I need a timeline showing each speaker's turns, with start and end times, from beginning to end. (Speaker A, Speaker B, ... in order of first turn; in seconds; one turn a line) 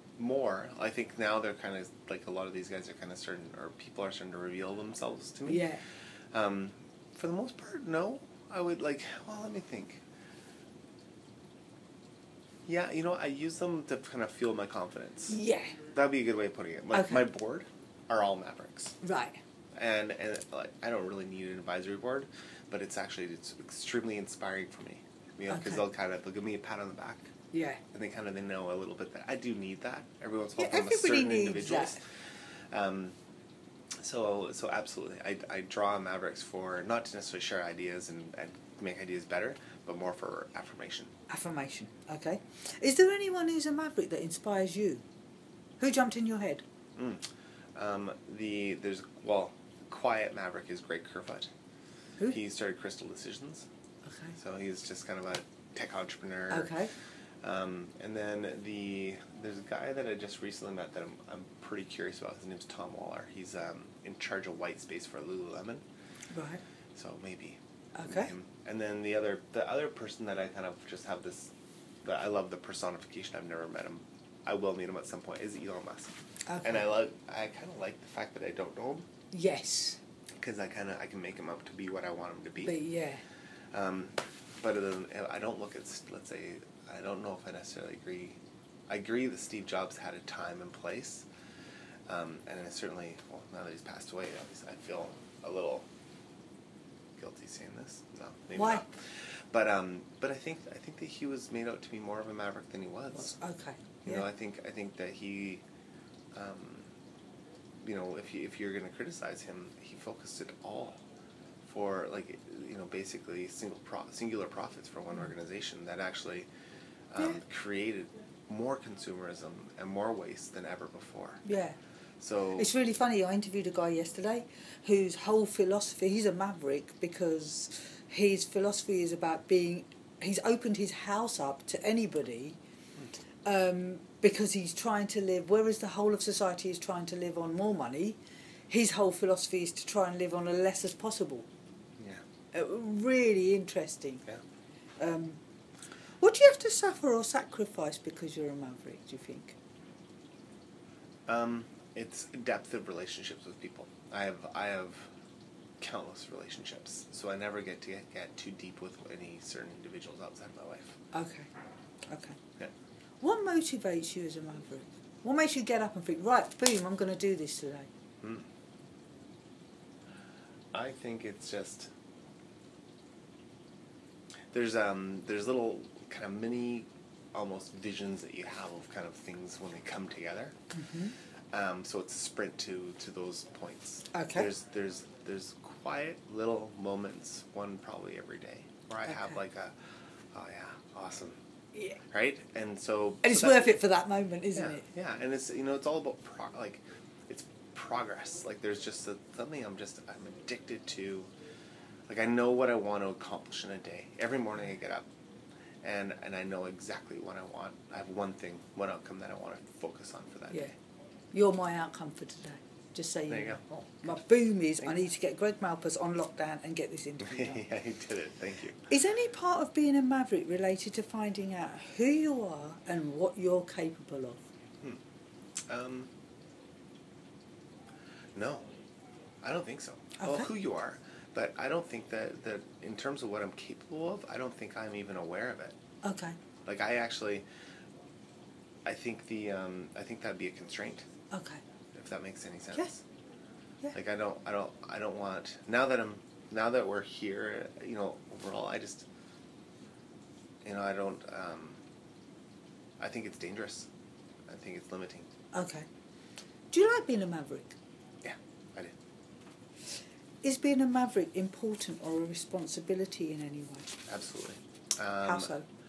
Speaker A: 0.2-5.7
Speaker B: 5.5-5.8
Speaker A: 6.3-10.0
Speaker A: 12.7-15.4
Speaker B: 15.3-15.8
Speaker A: 15.9-19.0
Speaker B: 16.9-17.3
Speaker B: 19.0-19.4
Speaker A: 19.8-27.3
Speaker B: 25.5-25.8
Speaker B: 27.5-27.8
Speaker A: 27.9-32.0
Speaker B: 30.6-32.0
Speaker A: 32.7-33.1
Speaker A: 34.0-41.1
Speaker B: 41.3-45.0
Speaker B: 45.8-46.6
Speaker A: 47.0-47.2
Speaker A: 47.8-51.5
Speaker A: 52.3-53.7
Speaker B: 54.1-54.3
Speaker A: 54.4-56.7
Speaker B: 56.5-56.9
Speaker A: 57.4-65.8
Speaker B: 66.3-66.6
Speaker A: 67.0-71.5
Speaker B: 68.0-68.3
Speaker A: 72.0-79.1
Speaker B: 76.5-76.9
Speaker B: 79.3-80.0
Speaker A: 80.4-82.8
Speaker B: 82.6-83.2
Speaker A: 83.7-91.2
Speaker A: 92.1-95.9
Speaker A: 97.2-103.4
Speaker B: 98.5-98.8
Speaker B: 103.2-104.2
Speaker A: 104.0-105.6
Speaker A: 106.3-106.9
Speaker A: 107.8-111.0
Speaker A: 111.7-116.5
Speaker A: 117.1-121.4
Speaker B: 121.5-121.8
Speaker A: 122.2-122.7
Speaker B: 122.5-132.6
Speaker B: 133.4-138.2
Speaker B: 138.7-141.5
Speaker A: 142.0-142.2
Speaker B: 142.5-144.3
Speaker B: 145.0-145.4
Speaker B: 146.2-149.6
Speaker A: 151.3-155.1
Speaker A: 155.8-161.0
Speaker B: 161.1-161.5
Speaker B: 162.1-162.4
Speaker B: 163.2-167.9
Speaker A: 168.2-168.5
Speaker A: 170.7-171.9
Speaker A: 174.5-180.6
Speaker B: 180.7-181.1
Speaker A: 181.5-189.7
Speaker B: 184.1-184.5
Speaker A: 190.3-191.4
Speaker A: 192.1-193.7
Speaker B: 193.2-194.8
Speaker A: 194.6-201.3
Speaker A: 202.1-205.1
Speaker A: 205.8-210.7
Speaker B: 211.3-217.7
Speaker A: 213.3-214.2
Speaker A: 217.2-218.9
Speaker B: 218.9-224.4
Speaker A: 225.7-226.1
Speaker A: 228.3-228.7
Speaker A: 229.4-235.8
Speaker B: 230.2-230.5
Speaker B: 236.0-236.4
Speaker A: 236.7-237.4
Speaker A: 238.8-241.1
Speaker B: 241.3-241.6
Speaker A: 241.9-243.0
Speaker A: 243.9-249.1
Speaker A: 250.6-251.8
Speaker A: 253.0-253.9
Speaker A: 254.5-255.3
Speaker B: 255.5-255.9
Speaker B: 256.7-257.8
Speaker A: 258.2-258.9
Speaker B: 260.4-263.9
Speaker A: 264.1-265.6
Speaker B: 265.2-265.7